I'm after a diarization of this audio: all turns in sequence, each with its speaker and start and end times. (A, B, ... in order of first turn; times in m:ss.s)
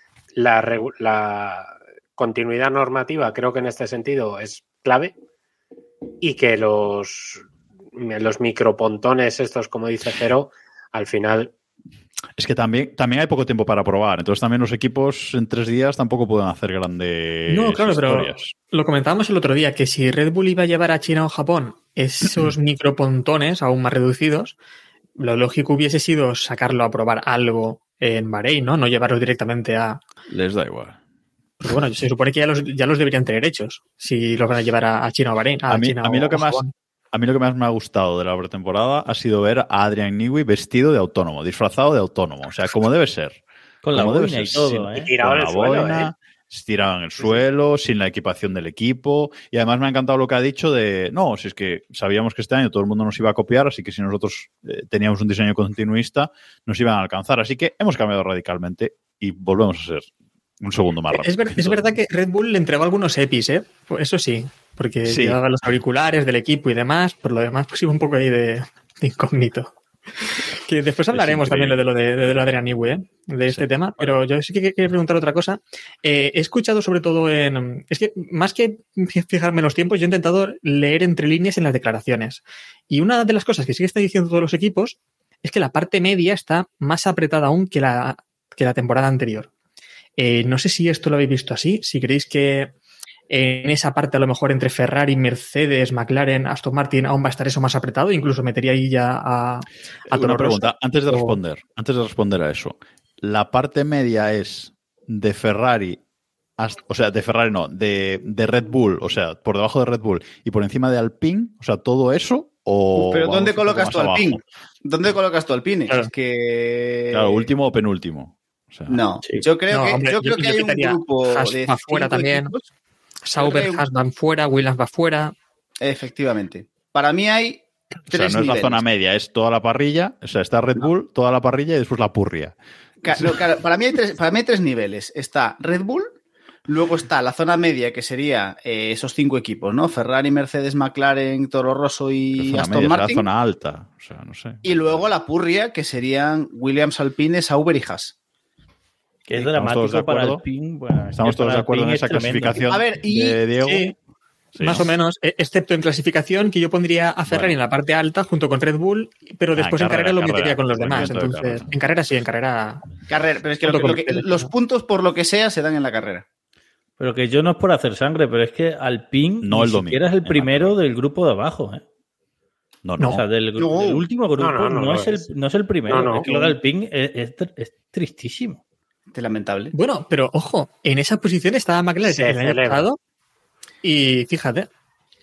0:00.3-0:05.2 A
0:06.2-0:11.5 A
0:12.4-0:18.5 B
0:17.5-0:24.6 C
0:25.2-0:30.0 C
0:30.3-0:31.0 B
0:31.6-0:36.7 C
0:35.7-0:43.4 B
0:43.8-0:45.1 D
0:43.9-1:00.1 B
0:45.0-0:46.1 A
1:00.6-1:01.9 B
1:01.1-1:09.7 C
1:05.0-1:05.4 B
1:10.5-1:29.5 C
1:11.1-1:11.8 B
1:30.2-1:32.7 C
1:33.3-1:41.4 C
1:40.1-1:46.0 B
1:46.6-1:54.4 B
1:53.0-1:57.5 E
1:57.1-1:59.0 B
1:58.9-2:02.6 E
1:59.7-2:02.5 C
2:03.2-2:05.3 C
2:03.4-2:03.8 E
2:05.8-2:08.8 E
2:08.1-2:12.6 B
2:13.0-2:16.1 E
2:16.7-2:23.3 E
2:22.4-2:25.1 B
2:24.6-2:28.1 E
2:29.3-2:32.6 D
2:29.4-2:30.4 B
2:31.2-2:33.9 B
2:32.7-2:33.4 E
2:33.6-2:34.0 C
2:34.5-2:34.9 B
2:34.6-2:42.9 C
2:37.3-2:37.6 B
2:39.6-2:41.7 B
2:43.1-2:46.2 E
2:43.6-2:44.5 C
2:47.0-2:51.8 D
2:49.4-2:50.8 B
2:52.8-2:53.2 B
2:53.0-2:58.6 D
2:53.6-2:54.1 E
2:54.4-2:55.3 A
2:55.9-2:56.3 A
2:59.1-2:59.7 E
2:59.7-3:03.0 C
3:02.0-3:02.9 A
3:03.8-3:04.7 C